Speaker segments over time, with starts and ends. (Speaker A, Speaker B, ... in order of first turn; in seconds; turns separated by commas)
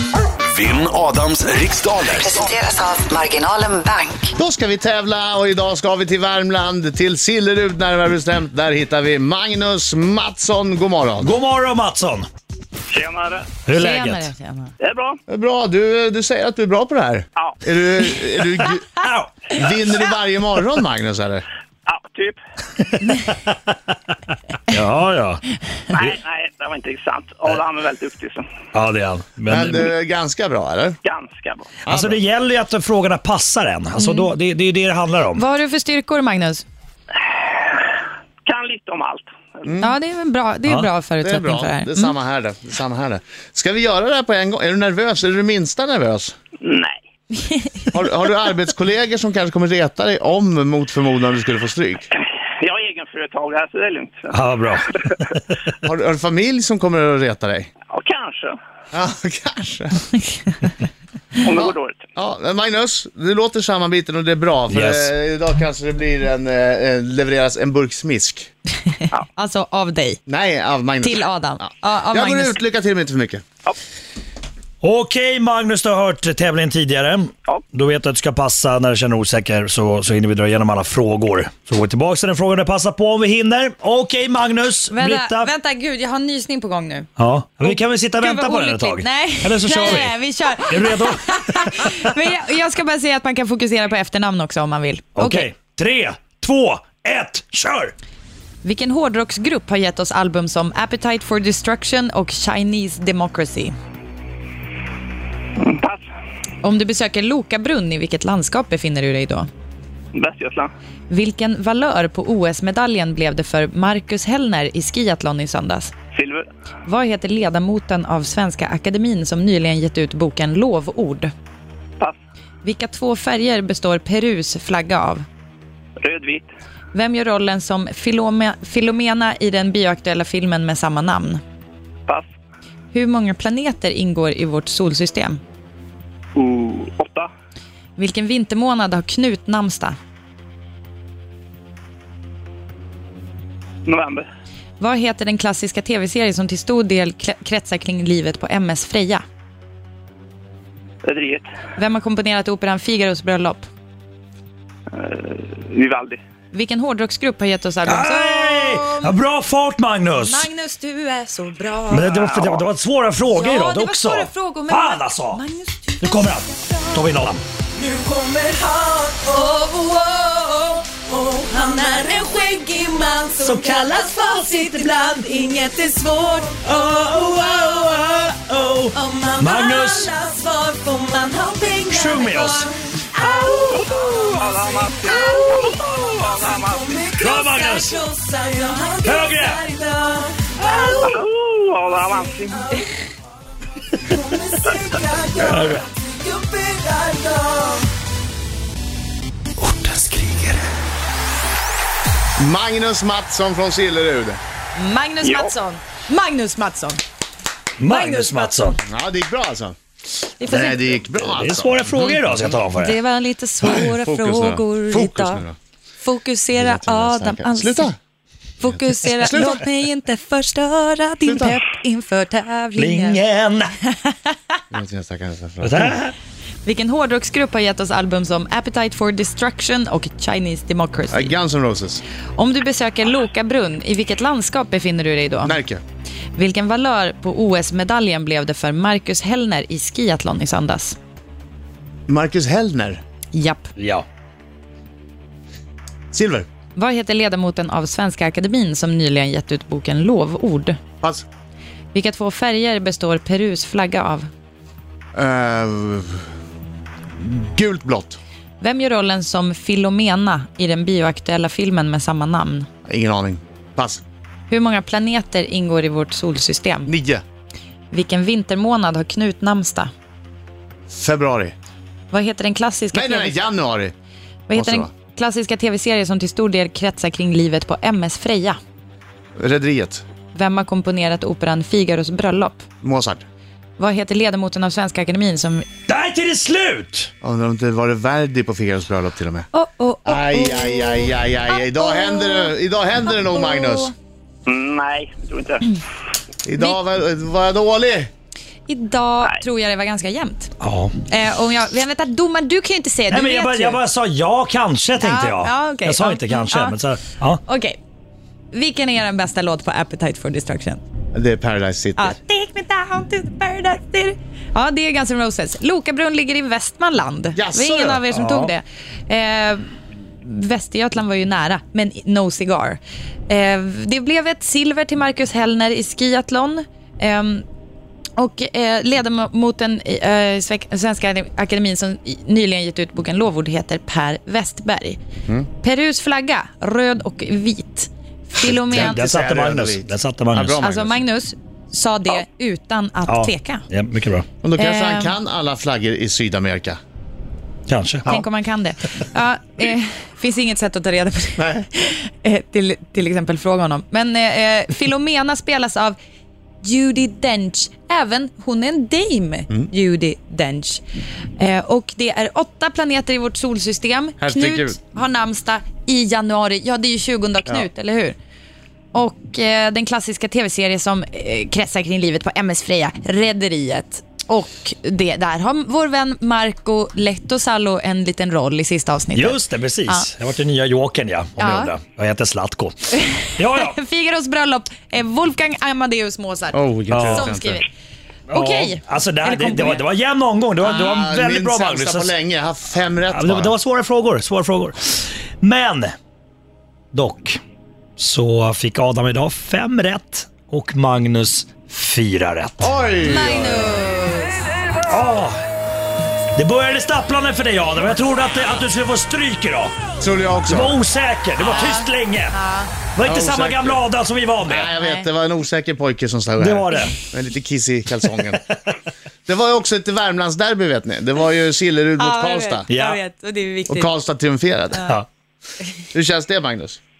Speaker A: 0.4-2.5, Speaker B: 2.2-4.3, Speaker C: 4.4-11.3, Speaker D: 11.2-12.3, Speaker E: 12.9-13.5, Speaker D: 13.6-14.3, Speaker F: 13.8-14.7, Speaker E: 14.8-15.2, Speaker C: 15.3-18.9, Speaker D: 18.9-19.6, Speaker C: 19.5-21.4, Speaker E: 21.9-22.4, Speaker D: 23.4-23.7, Speaker D: 24.7-26.1, Speaker E: 25.9-28.4, Speaker D: 28.7-29.9, Speaker C: 29.5-31.0, Speaker E: 31.0-31.7, Speaker C: 31.9-32.2, Speaker D: 31.9-35.4, Speaker F: 34.0-34.3, Speaker F: 35.3-36.6, Speaker E: 37.4-37.8, Speaker E: 38.5-39.5, Speaker C: 39.6-39.9, Speaker F: 39.8-42.1, Speaker C: 41.2-46.3, Speaker E: 46.6-47.0, Speaker C: 47.9-52.0, Speaker E: 52.6-54.3, Speaker D: 54.3-55.4, Speaker C: 55.8-57.7, Speaker E: 57.9-58.5, Speaker C: 58.9-60.1, Speaker E: 61.4-62.0, Speaker C: 61.5-68.5, Speaker D: 64.7-65.1, Speaker F: 68.9-70.2, Speaker C: 70.3-73.4, Speaker F: 71.0-72.6, Speaker D: 74.8-85.5, Speaker F: 84.9-87.1, Speaker D: 87.2-92.1, Speaker F: 87.6-95.5, Speaker D: 95.2-97.9, Speaker F: 98.6-103.7, Speaker E: 105.6-106.0, Speaker F: 106.6-109.5, Speaker E: 110.1-110.7, Speaker F: 111.1-115.9, Speaker E: 116.1-116.5, Speaker F: 116.8-121.3, Speaker F: 122.6-125.2, Speaker E: 126.0-126.5, Speaker F: 126.9-131.4, Speaker F: 132.9-135.4, Speaker E: 136.3-137.3, Speaker F: 138.0-139.9, Speaker E: 143.8-144.2, Speaker F: 144.8-149.2, Speaker E: 151.0-151.5, Speaker F: 151.8-153.6, Speaker E: 154.9-156.2, Speaker F: 156.5-159.2, Speaker D: 157.8-160.5, Speaker F: 160.1-162.2, Speaker D: 161.9-165.4, Speaker F: 163.3-167.2, Speaker D: 166.0-167.4, Speaker G: 167.8-169.5, Speaker F: 168.8-177.8, Speaker G: 171.1-178.0, Speaker D: 173.5-173.8, Speaker D: 178.0-180.1, Speaker G: 178.5-182.4, Speaker F: 179.1-182.4, Speaker D: 181.8-182.7, Speaker F: 183.2-184.1, Speaker G: 183.2-191.2, Speaker E: 183.4-186.9, Speaker D: 187.2-188.0, Speaker F: 187.8-191.0, Speaker D: 189.0-189.6, Speaker E: 191.0-192.7, Speaker G: 194.5-197.8, Speaker D: 195.4-195.8, Speaker A: 199.9-200.4, Speaker C: 202.4-204.4, Speaker F: 204.8-207.0, Speaker E: 205.2-205.5, Speaker D: 207.8-208.8, Speaker F: 207.8-208.8, Speaker C: 208.9-209.8, Speaker F: 210.4-210.8, Speaker C: 210.4-212.6, Speaker D: 210.5-212.9, Speaker F: 212.7-215.4, Speaker C: 213.6-215.5, Speaker F: 216.0-217.9, Speaker C: 216.5-217.9, Speaker F: 218.6-223.2, Speaker C: 219.1-219.6, Speaker C: 221.2-221.6, Speaker D: 222.8-223.7, Speaker F: 223.8-224.3, Speaker C: 224.7-226.0, Speaker D: 225.6-226.1, Speaker F: 226.6-231.3, Speaker C: 231.1-232.0, Speaker F: 232.4-235.6, Speaker C: 235.4-235.8, Speaker F: 236.3-241.0, Speaker C: 242.1-243.0, Speaker F: 243.3-243.7, Speaker D: 243.8-244.1, Speaker C: 246.1-246.5, Speaker F: 246.8-250.8, Speaker C: 251.0-251.2, Speaker F: 251.9-254.3, Speaker C: 255.1-256.2, Speaker C: 257.2-258.2, Speaker F: 258.6-262.7, Speaker C: 262.9-264.0, Speaker F: 264.5-266.9, Speaker C: 266.9-267.2, Speaker F: 267.9-269.9, Speaker C: 270.9-271.5, Speaker F: 272.1-273.4, Speaker C: 272.9-273.9, Speaker F: 274.5-278.6, Speaker C: 274.5-274.9, Speaker C: 279.4-280.0, Speaker F: 280.3-282.6, Speaker C: 282.8-283.2, Speaker F: 283.8-285.6, Speaker D: 285.9-287.1, Speaker C: 287.2-289.5, Speaker F: 289.5-292.5, Speaker C: 290.1-293.9, Speaker F: 293.1-293.9, Speaker E: 294.5-295.6, Speaker C: 296.4-298.1, Speaker F: 298.7-300.5, Speaker D: 300.6-300.9, Speaker F: 301.1-303.8, Speaker D: 303.1-307.4, Speaker F: 305.0-306.8, Speaker F: 307.4-307.8, Speaker F: 308.5-310.8, Speaker C: 311.1-312.2, Speaker F: 312.0-319.7, Speaker C: 317.3-318.2, Speaker D: 318.2-318.5, Speaker F: 320.2-327.4, Speaker F: 328.2-335.0, Speaker F: 335.6-339.0, Speaker C: 338.4-341.0, Speaker D: 338.7-340.6, Speaker F: 340.6-343.6, Speaker D: 343.1-344.2, Speaker C: 344.4-346.8, Speaker F: 344.6-345.1, Speaker D: 347.7-348.2, Speaker F: 348.1-356.0, Speaker C: 351.4-351.6, Speaker F: 356.6-360.8, Speaker F: 361.4-368.1, Speaker C: 364.2-364.8, Speaker F: 368.9-380.1, Speaker D: 379.1-383.8, Speaker F: 381.4-381.7, Speaker F: 382.9-387.7, Speaker C: 386.5-387.6, Speaker D: 386.9-387.3, Speaker D: 388.3-392.1, Speaker F: 388.3-389.8, Speaker C: 390.6-393.5, Speaker D: 393.1-395.9, Speaker D: 396.9-397.4, Speaker D: 398.0-402.7, Speaker C: 402.6-403.8, Speaker F: 403.0-404.4, Speaker D: 404.9-405.4, Speaker D: 406.4-409.7, Speaker C: 410.0-410.8, Speaker D: 410.5-412.3, Speaker F: 411.4-412.7, Speaker D: 412.9-414.7, Speaker C: 413.0-413.8, Speaker C: 414.4-418.6, Speaker F: 414.8-415.1, Speaker D: 416.4-416.9, Speaker C: 419.2-422.6, Speaker F: 422.0-423.9, Speaker D: 422.7-423.0, Speaker C: 423.7-424.9, Speaker C: 425.9-426.8